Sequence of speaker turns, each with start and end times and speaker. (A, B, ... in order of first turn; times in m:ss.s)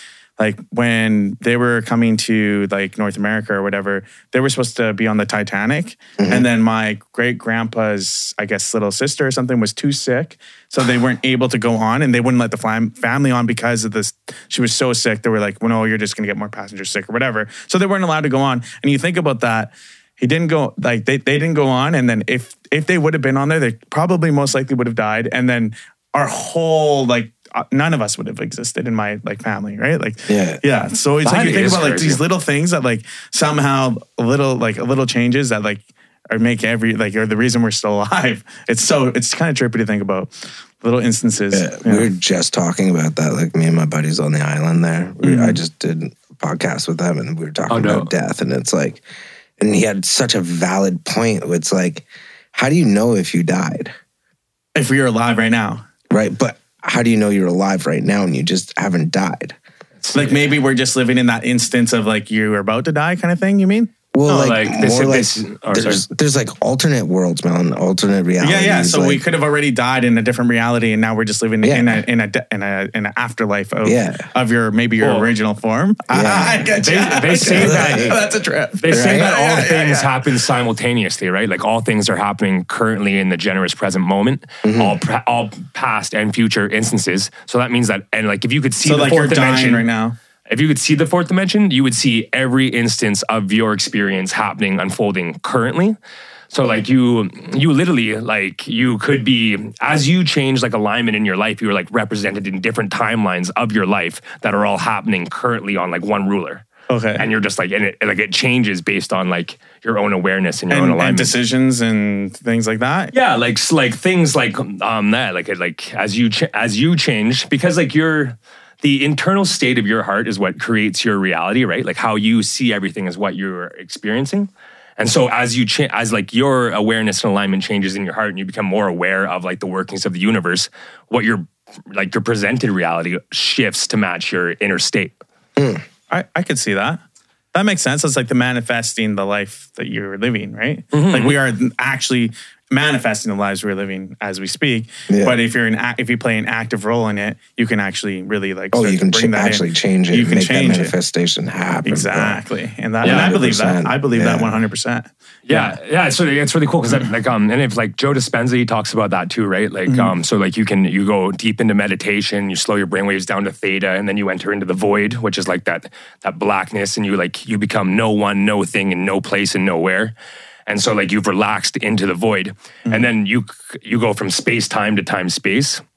0:00.4-0:40.3 A
0:06.2-0:06.5 B
0:30.3-0:30.6 B
0:31.2-0:32.2 C
0:40.8-0:42.1 A
0:41.5-0:49.0 B
0:45.2-0:45.6 A
0:47.7-0:48.1 C
0:49.6-0:53.9 B
0:54.8-0:55.8 A
0:56.1-0:59.6 B
1:00.0-1:00.5 C
1:00.1-1:03.9 A
1:04.1-1:09.2 B
1:04.2-1:06.0 C
1:08.4-1:20.3 A
1:11.6-1:12.0 B
1:13.8-1:14.3 B
1:15.0-1:15.3 C
1:16.1-1:16.8 B
1:16.8-1:18.2 C
1:17.5-1:18.2 B
1:18.8-1:29.9 C
1:18.9-1:19.3 B
1:24.6-1:25.0 B
1:28.8-1:30.2 A
1:30.5-1:36.0 C
1:36.5-1:51.4 C
1:46.9-1:47.2 A
1:50.7-1:53.1 A
1:53.1-2:15.2 C
2:15.6-2:15.8 B
2:16.1-2:17.0 A
2:17.5-2:30.9 A
2:20.9-2:21.4 C
2:25.1-2:25.4 B
2:28.7-2:32.4 B
2:31.8-2:35.8 A
2:33.0-2:34.6 B
2:33.0-2:33.4 C
2:35.5-2:50.1 C
2:39.9-2:40.1 A
2:50.7-2:55.8 C